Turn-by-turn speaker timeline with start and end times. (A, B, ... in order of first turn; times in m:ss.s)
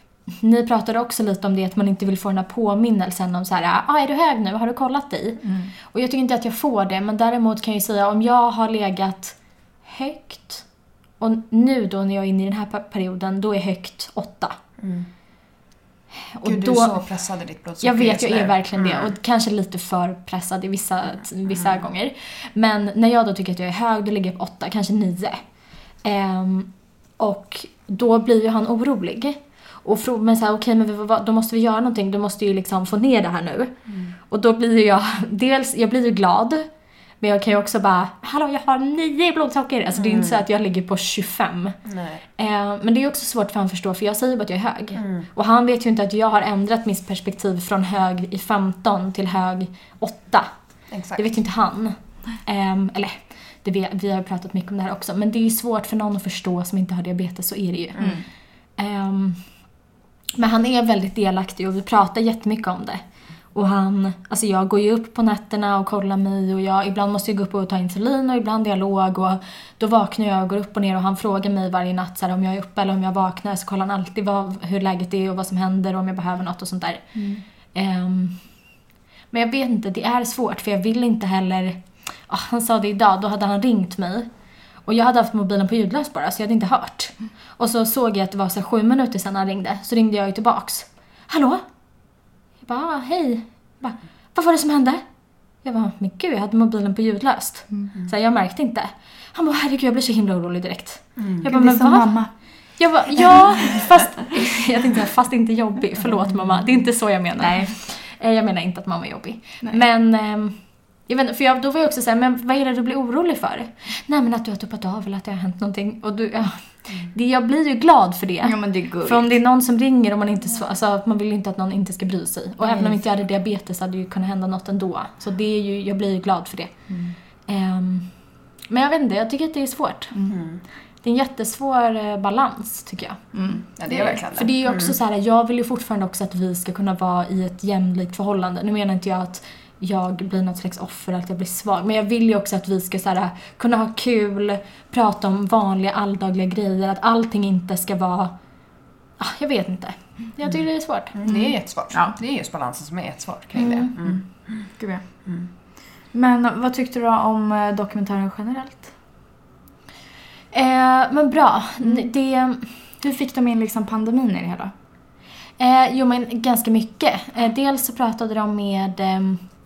0:00.3-0:10.6 A
0:05.4-0:05.7 B
0:11.2-0:14.6 A
0:14.8-0:15.1 C
0:16.2-0:17.0 A
0:16.4-0:19.1 C
0:17.8-0:25.4 A
0:21.5-0:21.8 C
0:26.0-0:33.7 A
0:34.3-0:36.7 A
0:37.2-0:41.8 A
0:40.0-0:40.4 C
0:41.9-0:42.2 C
0:42.4-0:50.5 A
0:45.0-0:45.3 C
0:50.9-0:51.3 C
0:51.2-0:58.1 A
0:58.0-0:58.3 B
0:58.8-0:59.4 A
1:00.4-1:03.0 A
1:03.5-1:17.1 A
1:17.2-1:17.4 B
1:17.7-1:18.4 A
1:19.3-1:24.3 A
1:24.9-1:31.6 A
1:32.6-1:35.0 A
1:35.6-1:42.2 A
1:41.2-1:41.5 C
1:41.4-1:42.3 B
1:42.8-1:50.6 A
1:47.4-1:47.7 B
1:51.1-2:06.8 A
1:58.4-1:59.3 B
2:02.6-2:03.0 B
2:06.9-2:07.2 B
2:07.5-2:08.1 A
2:08.7-2:10.2 A
2:10.3-2:10.6 C
2:11.0-2:13.3 A
2:13.3-2:13.6 B
2:13.8-2:15.0 C
2:13.9-2:28.3 A
2:29.2-2:31.2 A
2:31.1-2:34.7 C
2:31.3-2:32.2 B
2:33.6-2:33.9 A
2:34.0-2:35.0 B
2:36.1-2:38.9 B
2:40.5-2:42.8 A
2:41.8-2:42.1 B
2:43.0-2:44.7 B
2:45.6-2:49.5 A